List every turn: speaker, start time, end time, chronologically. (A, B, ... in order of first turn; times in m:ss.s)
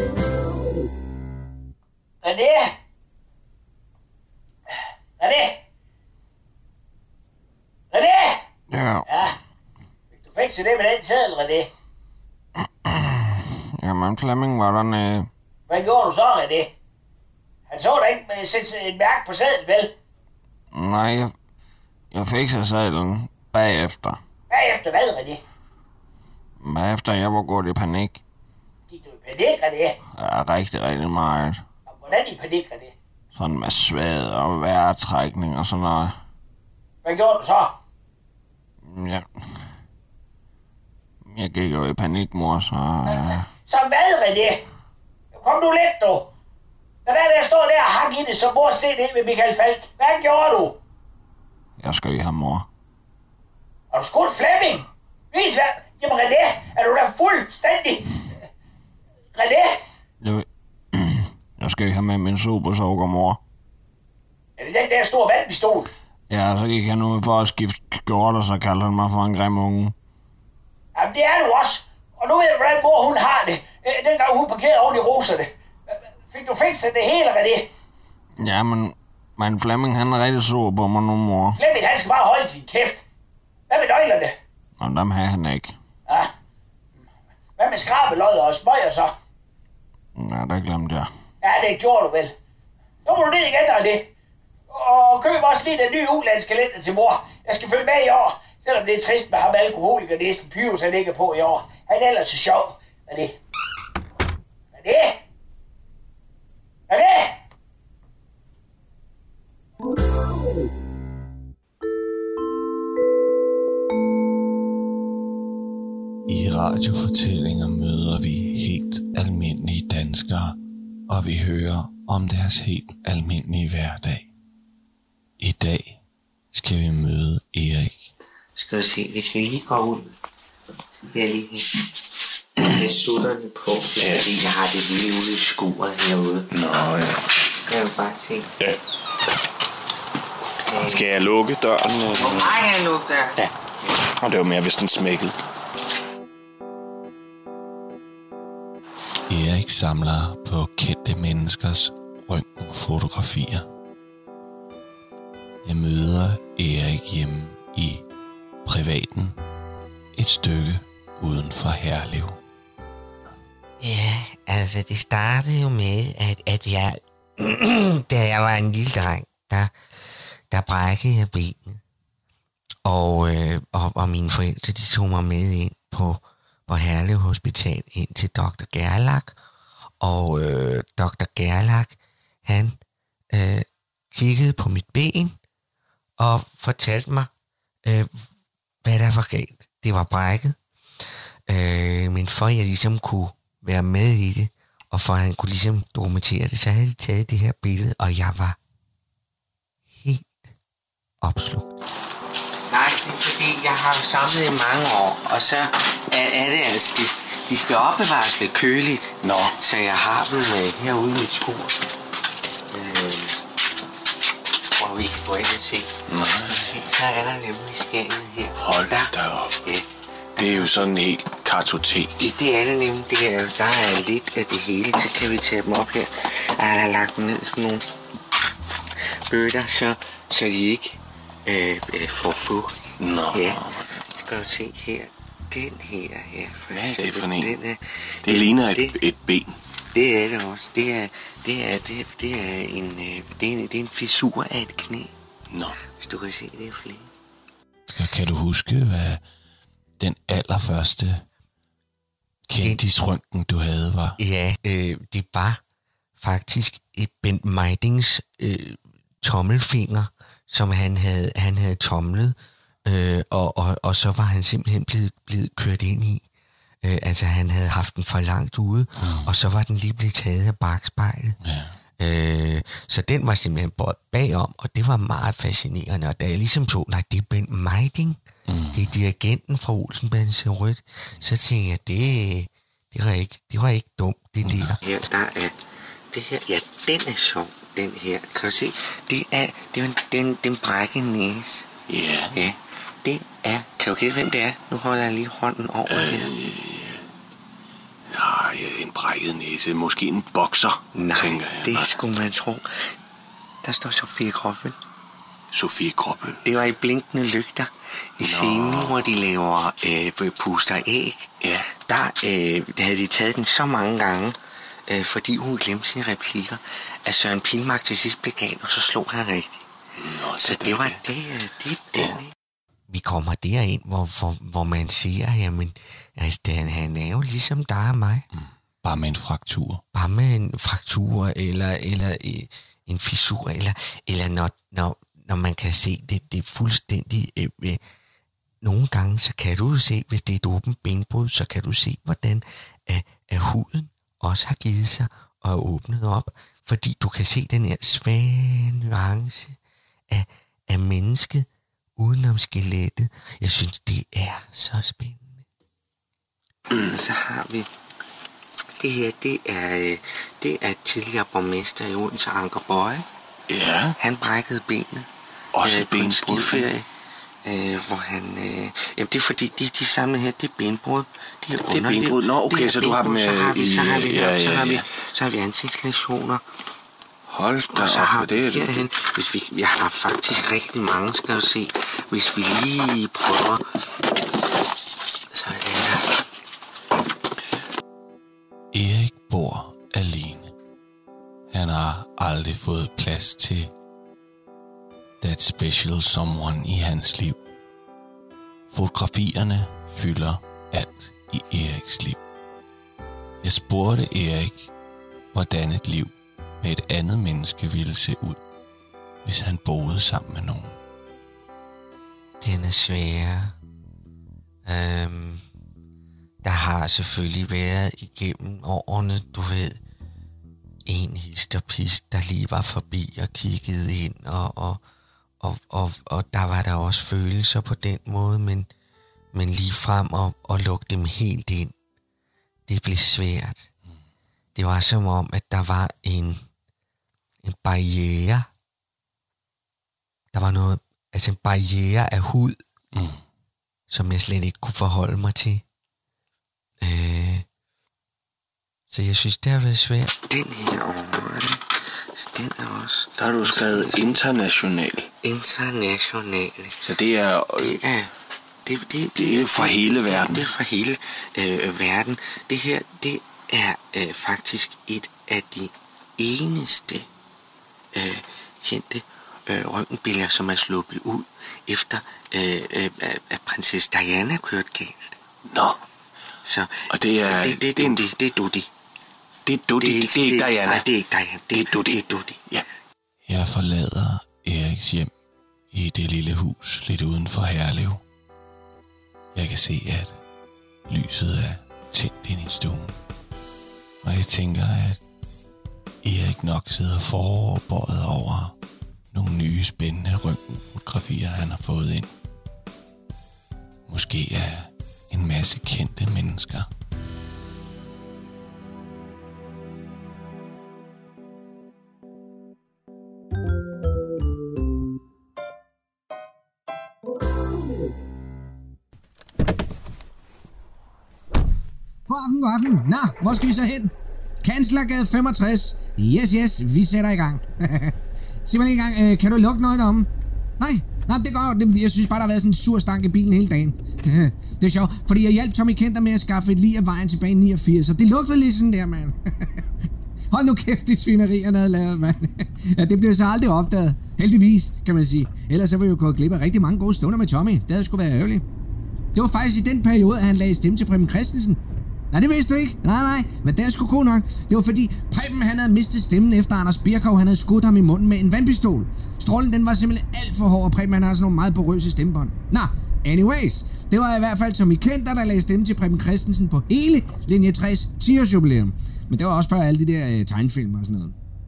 0:02.2-0:02.7 A
0:05.2-0:05.6 A
0:07.9-0:08.4 A
0:08.7-0:09.1 B
0:09.1-0:09.4 A
0:10.2-0:11.7 A
0:12.9-0:15.3 B
0:15.7-0:16.7 A
0:17.7-0:19.9 A
0:20.7-0:21.3 B
0:22.1-0:24.2 B
0:24.5-0:25.4 A
0:26.6-0:28.2 B
0:28.9-0:30.0 A
0:30.2-0:31.6 B
0:31.9-0:32.9 A
0:33.4-0:36.2 B
0:37.0-0:37.7 A
0:38.9-0:39.3 B
0:41.3-0:43.5 B
0:43.1-0:44.6 A
0:45.3-0:46.3 A
0:47.1-0:50.8 A
0:51.8-0:52.7 B
0:53.9-0:58.2 A
0:59.4-0:59.8 A
1:00.2-1:03.4 B
1:04.6-1:05.9 A
1:06.3-1:09.9 B
1:11.0-1:15.5 A
1:16.3-1:17.7 A
1:18.4-1:21.6 B
1:21.6-1:23.0 A
1:23.7-1:24.4 A
1:24.8-1:25.8 B
1:27.6-1:29.1 A
1:30.2-1:31.1 B
1:31.4-1:32.3 A
1:33.0-1:34.1 A
1:34.7-1:43.4 A
1:44.7-1:45.2 A
1:46.9-1:47.4 A
1:56.3-2:00.6 C
2:01.1-2:04.3 C
2:05.4-2:06.0 C
2:06.5-2:08.1 C
2:08.6-2:10.1 D
2:11.1-2:11.8 D
2:12.6-2:16.5 D
2:14.0-2:14.3 E
2:16.5-2:17.2 E
2:17.7-2:18.5 D
2:20.7-2:21.0 D
2:20.8-2:22.7 E
2:22.1-2:23.4 D
2:24.0-2:25.4 E
2:29.3-2:33.7 C
2:35.6-2:38.0 C
2:38.6-2:39.4 C
2:40.2-2:42.4 C
2:43.8-2:49.7 D
2:50.5-2:51.8 D
2:52.8-2:59.3 D
3:00.0-3:02.8 D
3:03.3-3:05.4 D
3:06.2-3:07.3 D
3:07.8-3:08.1 D
3:08.8-3:10.6 D
3:11.5-3:18.6 D
3:20.0-3:20.4 D
3:21.2-3:21.7 D
3:22.7-3:31.8 D
3:29.2-3:29.5 E
3:32.7-3:33.4 D
3:34.8-3:40.8 D
3:36.2-3:36.5 E
3:40.4-3:42.3 E
3:42.2-3:47.9 D
3:49.0-3:59.0 D
3:53.0-3:53.6 E
3:57.0-3:57.4 C
3:58.4-3:59.5 E
3:59.9-4:05.1 D
4:06.0-4:07.1 D
4:07.9-4:09.2 C
4:10.0-4:11.2 C
4:12.5-4:14.2 C
4:12.6-4:12.9 D
4:14.2-4:15.6 D
4:16.2-4:26.2 D
4:26.8-4:31.4 D
4:29.0-4:29.3 C
4:31.4-4:31.8 C
4:32.0-4:38.2 D
4:38.5-4:39.0 C
4:38.7-4:45.6 D
4:44.4-4:44.8 C
4:46.1-4:51.7 D
4:52.3-4:56.4 D
4:58.1-5:00.4 C
5:00.9-5:02.9 D
5:01.5-5:01.9 C
5:03.6-5:04.8 D
5:06.4-5:19.7 D
5:20.3-5:22.3 D
5:22.9-5:28.2 D
5:28.8-5:29.8 C
5:29.9-5:37.8 D
5:38.6-5:49.6 D
5:50.1-5:55.4 D
5:56.7-5:57.7 D
5:58.8-6:03.1 D
6:03.5-6:03.9 E
6:04.0-6:06.9 D
6:07.4-6:16.4 D
6:11.7-6:14.8 E
6:17.3-6:18.9 E
6:17.5-6:23.7 D
6:25.3-6:26.2 D
6:28.7-6:30.5 C
6:31.5-6:33.7 C
6:35.2-6:37.4 C
6:38.7-6:42.2 C
6:43.4-6:44.7 C
6:45.3-6:48.4 C
6:49.2-6:50.8 C
6:52.4-6:53.5 D
6:54.7-6:55.4 D
6:56.4-6:59.8 D
7:00.9-7:04.8 D
7:05.4-7:08.7 D
7:09.3-7:11.7 D
7:12.7-7:13.7 D
7:14.6-7:16.4 D
7:17.4-7:18.5 D
7:20.3-7:22.6 D
7:22.9-7:23.2 C
7:23.9-7:25.6 D
7:26.8-7:27.5 D
7:28.9-7:34.2 D
7:33.2-7:35.1 E
7:35.2-7:36.9 D
7:36.8-7:37.7 E
7:37.6-7:38.1 D
7:38.6-7:47.1 D
7:39.2-7:40.5 E
7:48.0-7:55.1 D
7:56.4-7:58.7 D
7:56.9-7:58.0 E
7:59.5-8:00.8 E
7:59.8-8:02.4 D
8:01.5-8:02.0 E
8:03.3-8:05.1 C
8:05.7-8:08.0 C
8:09.4-8:10.2 C
8:10.9-8:13.0 C
8:14.0-8:15.0 C
8:16.0-8:18.5 C
8:19.1-8:22.1 C
8:23.9-8:26.7 C
8:42.1-8:59.6 F
9:00.3-9:08.4 F
9:09.1-9:11.6 F
9:12.1-9:31.2 F